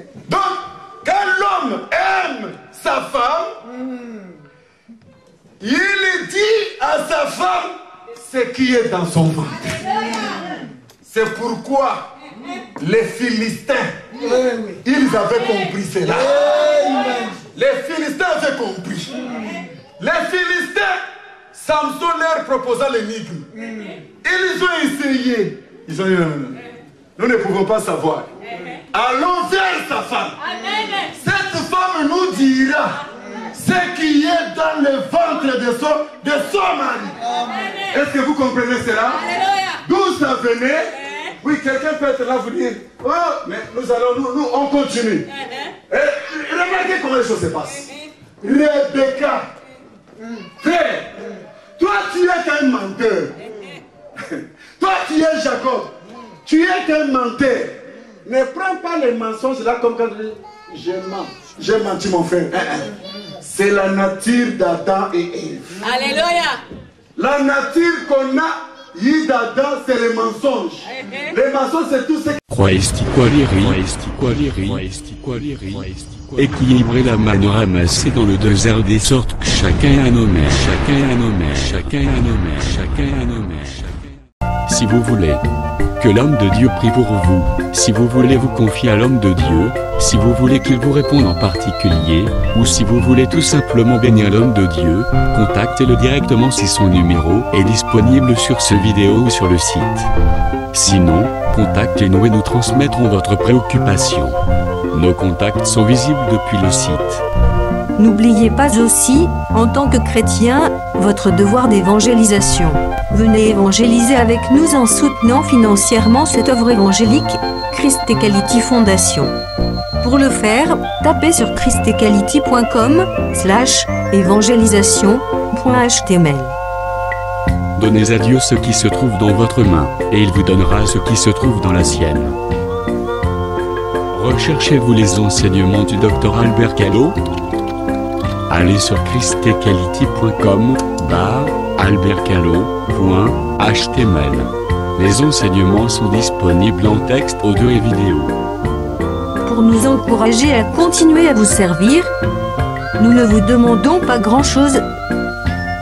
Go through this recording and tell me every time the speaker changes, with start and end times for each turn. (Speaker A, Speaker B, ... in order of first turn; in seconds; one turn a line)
Speaker A: 0.3-3.5
Speaker A: 5.6-9.9
Speaker A: 11.0-12.1
Speaker A: 12.8-14.1
Speaker A: 14.8-16.9
Speaker A: 17.5-19.1
Speaker A: 20.0-21.0
Speaker A: 21.5-23.5
Speaker A: 24.2-26.6
Speaker A: 27.2-28.3
Speaker A: 28.9-30.4
Speaker B: 30.4-31.2
Speaker A: 31.2-37.2
Speaker B: 37.4-37.8
Speaker A: 37.9-39.3
Speaker B: 39.2-39.8
Speaker A: 39.8-45.3
Speaker B: 45.4-45.7
Speaker A: 45.9-49.5
Speaker A: 50.6-51.3
Speaker A: 51.8-53.4
Speaker B: 53.5-53.8
Speaker A: 54.2-55.9
Speaker A: 56.5-65.8
Speaker B: 65.8-66.6
Speaker A: 67.2-72.4
Speaker B: 70.9-71.3
Speaker C: 72.5-84.0
Speaker C: 84.7-85.4
Speaker C: 86.0-100.1
Speaker C: 100.7-104.4
Speaker C: 104.9-107.2
Speaker D: 108.0-119.3
Speaker D: 120.0-126.5
Speaker C: 127.8-132.4
Speaker C: 134.1-137.2
Speaker C: 138.5-148.4
Speaker D: 149.4-152.1
Speaker D: 153.0-154.9